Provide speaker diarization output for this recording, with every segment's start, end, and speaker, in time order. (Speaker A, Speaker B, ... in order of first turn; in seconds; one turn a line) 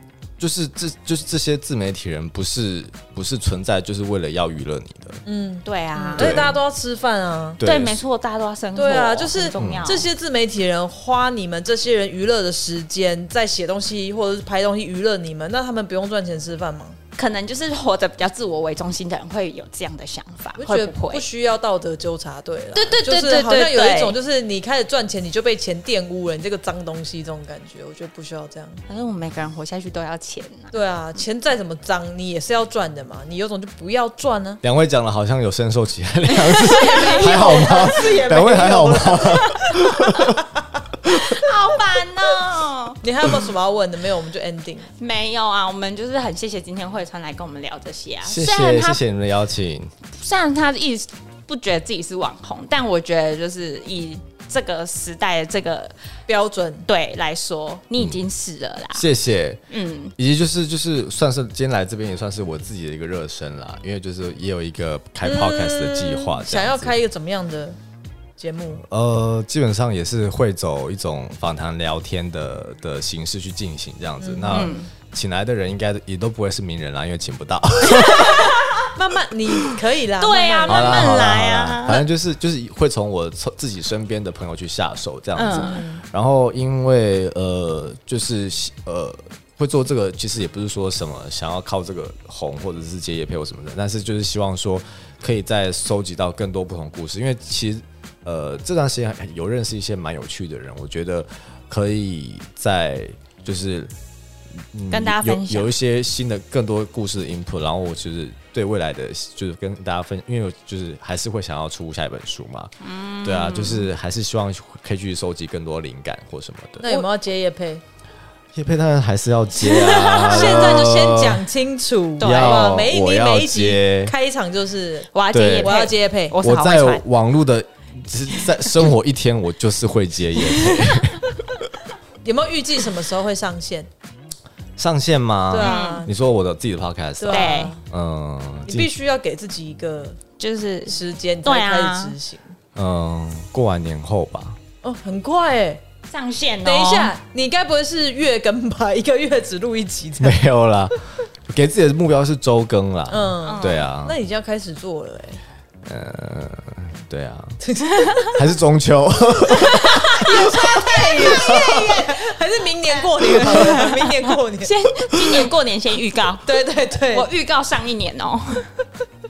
Speaker A: 0.4-5.2
Speaker B: 5.2-7.6
Speaker C: 5.6-6.5
Speaker A: 6.2-6.6
Speaker A: 7.6-8.0
Speaker C: 7.6-10.1
Speaker B: 8.8-17.0
Speaker A: 9.6-10.0
Speaker C: 17.2-21.3
Speaker B: 20.6-28.8
Speaker C: 22.7-24.2
Speaker C: 28.9-30.8
Speaker B: 30.7-34.6
Speaker A: 34.6-40.4
Speaker C: 36.4-38.3
Speaker B: 36.7-40.4
Speaker C: 39.1-39.6
Speaker C: 41.0-43.0
Speaker B: 43.0-44.9
Speaker C: 45.0-49.0
Speaker A: 48.2-50.0
Speaker C: 50.1-56.0
Speaker B: 56.3-56.9
Speaker C: 56.9-59.1
Speaker A: 58.9-59.6
Speaker C: 59.7-60.2
Speaker A: 60.2-67.0
Speaker B: 65.2-67.8
Speaker B: 68.4-68.8
Speaker A: 68.9-78.6
Speaker B: 74.2-74.8
Speaker C: 74.5-74.9
Speaker C: 77.9-78.7
Speaker B: 77.9-81.1
Speaker C: 80.2-82.0
Speaker A: 80.7-104.0
Speaker C: 85.4-85.8
Speaker B: 85.4-86.0
Speaker A: 104.5-117.1
Speaker C: 104.9-105.7
Speaker C: 112.8-113.9
Speaker B: 116.8-117.8
Speaker A: 118.5-121.4
Speaker C: 119.6-120.9
Speaker B: 120.2-126.4
Speaker C: 122.2-122.7
Speaker A: 122.2-124.1
Speaker C: 125.1-127.0
Speaker A: 125.3-125.9
Speaker A: 126.4-131.7
Speaker C: 130.4-130.8
Speaker B: 132.2-133.9
Speaker A: 134.8-138.9
Speaker B: 135.5-136.1
Speaker C: 135.6-136.1
Speaker B: 137.2-137.8
Speaker C: 137.3-137.8
Speaker B: 138.7-140.2
Speaker C: 140.4-142.2
Speaker B: 140.9-142.6
Speaker A: 142.8-144.6
Speaker B: 144.8-145.8
Speaker C: 146.1-147.1
Speaker B: 146.6-150.4
Speaker A: 150.2-154.2
Speaker B: 153.1-155.4
Speaker C: 153.4-153.9
Speaker A: 155.8-157.6
Speaker B: 157.6-158.2
Speaker C: 157.8-158.4
Speaker A: 158.3-160.1
Speaker B: 159.5-165.5
Speaker C: 159.5-162.2
Speaker A: 161.3-161.6
Speaker C: 162.9-168.7
Speaker B: 166.5-167.3